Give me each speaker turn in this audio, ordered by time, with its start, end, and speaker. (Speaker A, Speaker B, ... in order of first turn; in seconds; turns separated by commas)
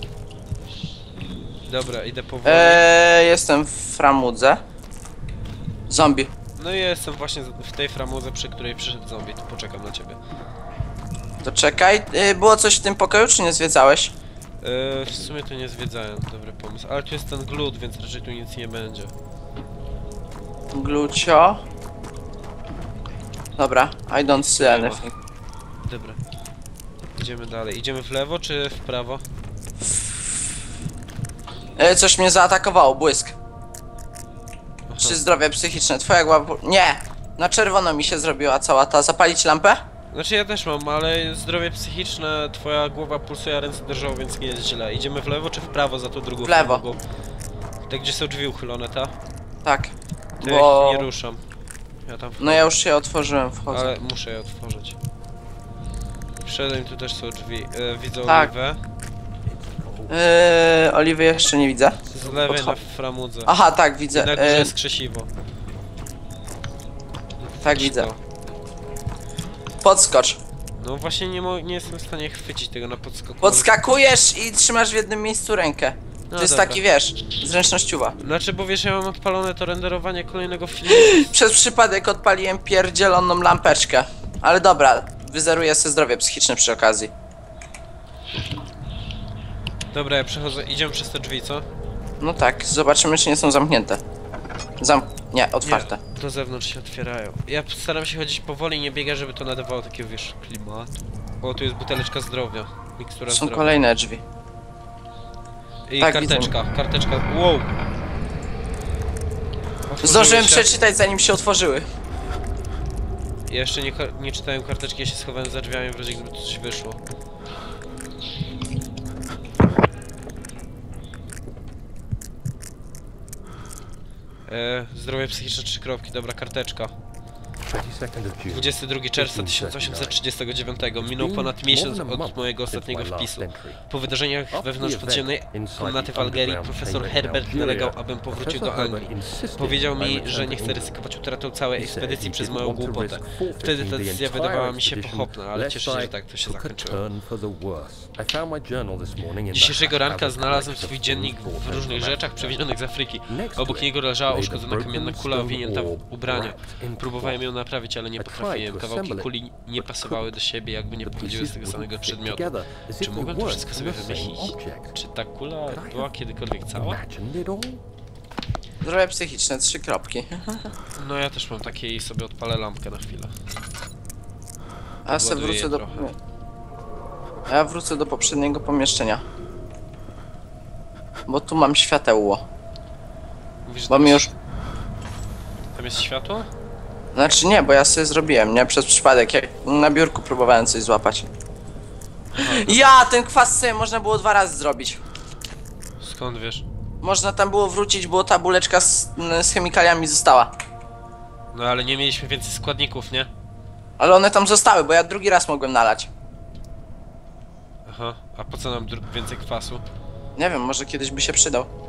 Speaker A: 1.7-2.9, Speaker B: 2.5-4.6, Speaker B: 5.9-6.3, Speaker A: 6.6-10.2, Speaker B: 11.4-14.1, Speaker A: 14.6-19.1, Speaker B: 20.7-21.6, Speaker B: 23.6-25.1, Speaker A: 24.5-25.1, Speaker A: 25.9-26.2, Speaker A: 27.2-29.2, Speaker B: 31.8-33.4, Speaker A: 34.9-35.2, Speaker B: 35.0-39.8, Speaker A: 40.1-47.0, Speaker B: 46.5-46.8, Speaker A: 47.9-49.1, Speaker B: 49.6-51.1, Speaker A: 50.4-51.4, Speaker A: 52.0-52.7, Speaker B: 52.4-53.9, Speaker A: 53.7-55.0, Speaker A: 56.4-58.8, Speaker B: 58.3-58.5, Speaker C: 59.5-60.2, Speaker B: 60.1-62.8, Speaker A: 62.1-63.5, Speaker B: 63.5-64.7, Speaker A: 64.1-65.3, Speaker B: 67.6-68.1, Speaker A: 67.6-68.2, Speaker B: 69.8-70.4, Speaker A: 70.8-73.7, Speaker B: 73.4-78.2, Speaker A: 76.3-76.8, Speaker A: 78.2-81.3, Speaker B: 80.9-87.1, Speaker A: 89.9-91.7, Speaker B: 92.2-94.0, Speaker B: 94.8-96.0, Speaker A: 95.6-103.8, Speaker B: 103.3-104.2, Speaker A: 105.9-107.7, Speaker B: 106.0-106.5, Speaker A: 109.9-110.7, Speaker B: 110.0-111.9, Speaker A: 113.5-117.0, Speaker A: 124.5-126.9, Speaker C: 127.7-130.2, Speaker A: 128.5-147.0, Speaker C: 131.0-133.8, Speaker C: 134.5-141.0, Speaker C: 141.8-152.6, Speaker A: 149.5-167.0, Speaker C: 153.3-157.4, Speaker C: 158.2-160.3, Speaker C: 161.0-165.0, Speaker C: 165.7-166.1, Speaker C: 166.7-167.8, Speaker B: 168.8-170.7, Speaker A: 171.0-173.3, Speaker B: 175.1-176.1, Speaker A: 175.1-176.1, Speaker B: 177.5-179.2, Speaker B: 181.3-182.4, Speaker A: 183.7-184.3, Speaker B: 183.9-184.3, Speaker A: 185.7-186.5, Speaker B: 187.1-191.3, Speaker A: 192.3-192.9, Speaker B: 192.5-195.0, Speaker A: 196.0-196.7, Speaker B: 197.0-200.5, Speaker A: 201.5-203.3, Speaker B: 204.0-206.1, Speaker A: 207.8-209.8, Speaker B: 210.4-211.7